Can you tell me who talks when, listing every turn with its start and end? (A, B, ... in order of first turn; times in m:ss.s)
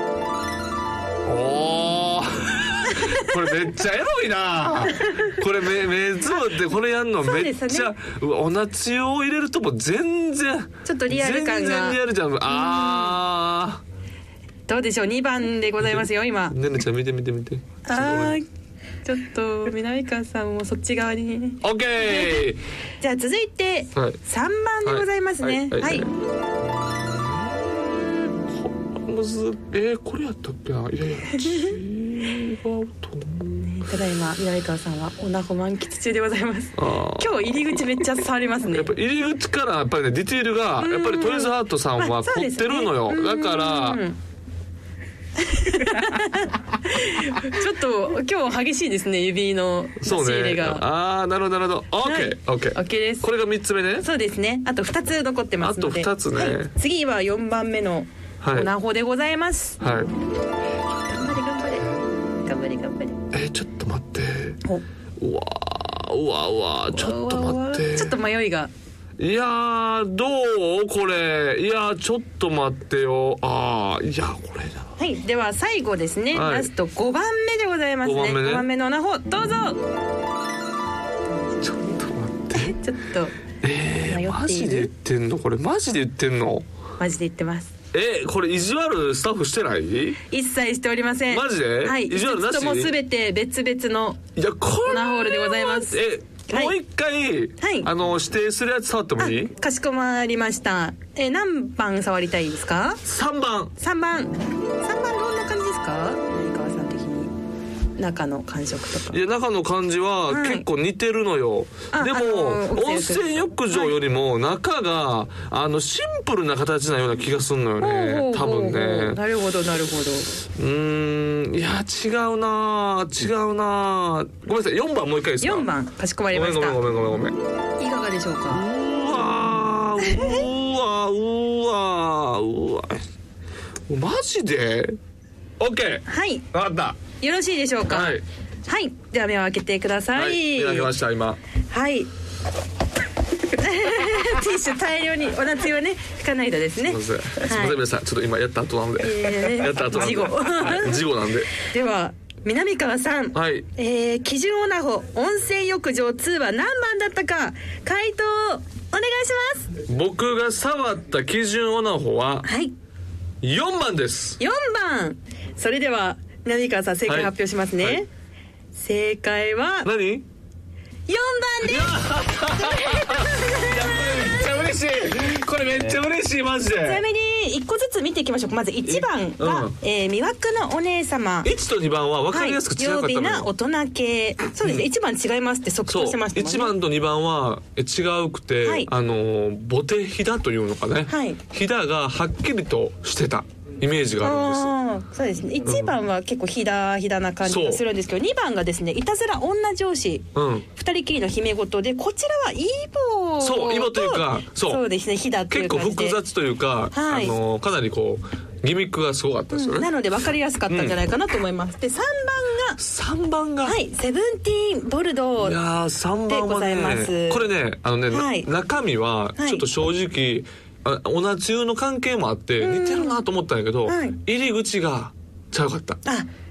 0:01.2-0:13.8 A
0:03.0-0:03.3 B
0:05.0-0:05.4 B
0:07.2-0:07.9 B
0:10.8-0:13.2 B
0:14.7-0:16.6 B
0:15.8-0:18.4 A
0:17.8-0:18.4 B
0:19.0-0:22.4 B
0:21.6-0:22.6 A
0:23.0-0:26.1 B
0:24.8-0:26.1 A
0:26.8-0:33.9 A
0:31.4-0:31.8 B
0:33.6-0:38.9 B
0:36.8-0:38.1 A
0:38.7-0:44.0 A
0:40.8-0:44.2 B
0:45.4-0:50.8 B
0:50.0-0:54.1 A
0:52.0-0:53.3 B
0:54.0-0:59.8 B
0:55.6-0:56.7 A
0:58.4-0:58.7 A
0:59.8-1:00.1 A
1:01.0-1:01.9 B
1:02.4-1:03.2 B
1:03.3-1:04.6 A
1:05.2-1:08.2 A
1:06.9-1:08.7 B
1:09.2-1:14.9 A
1:15.0-1:19.8 B
1:16.3-1:16.7 A
1:18.0-1:18.7 A
1:21.3-1:22.0 B
1:21.6-1:22.8 A
1:22.5-1:23.4 B
1:23.6-1:26.7 A
1:24.1-1:24.9 B
1:27.0-1:27.7 B
1:27.9-1:30.2 A
1:30.3-1:34.2 B
1:31.3-1:32.9 A
1:34.4-1:39.5 A
1:34.8-1:36.8 B
1:37.6-1:37.9 B
1:39.2-1:43.0 B
1:43.0-1:43.7 A
1:43.8-1:47.3 B
1:48.0-1:49.2 B
1:49.1-1:59.2 A
1:50.3-1:50.7 B
1:51.9-1:54.0 B
1:57.8-2:00.4 B
2:00.6-2:05.7 A
2:05.4-2:06.8 B
2:06.3-2:07.4 A
2:07.8-2:08.7 B
2:08.5-2:13.0 A
2:10.0-2:10.5 B
2:13.9-2:15.0 A
2:15.6-2:17.0 A
2:16.1-2:16.5 B
2:17.2-2:20.9 B
2:17.9-2:18.2 A
2:20.1-2:21.4 A
2:21.7-2:22.1 B
2:23.5-2:27.8 B
2:26.8-2:31.5 A
2:29.0-2:39.7 B
2:33.3-2:33.7 A
2:39.8-2:42.5 A
2:42.4-2:42.7 B
2:43.4-2:44.4 A
2:44.4-2:48.1 B
2:47.1-2:48.0 A
2:48.7-2:49.9 B
2:49.8-2:50.3 A
2:51.1-2:54.3 B
2:51.6-2:57.0 A
2:56.8-3:01.5 B
2:58.9-2:59.8 A
3:01.4-3:03.5 A
3:02.3-3:06.7 B
3:04.6-3:04.9 A
3:05.9-3:14.7 A
3:08.6-3:08.9 B
3:11.1-3:11.4 B
3:14.2-3:26.2 B
3:15.6-3:16.0 A
3:17.4-3:17.8 A
3:20.4-3:20.7 A
3:23.4-3:24.8 A
3:25.5-3:29.9 A
3:26.9-3:27.4 B
3:29.5-3:32.8 B
3:30.7-3:31.0 A
3:32.8-3:33.8 A
3:33.6-3:35.6 B
3:35.4-3:46.0 A
3:36.3-3:37.5 B
3:38.1-3:38.5 B
3:39.4-3:39.6 B
3:42.6-3:43.2 B
3:43.9-3:44.2 B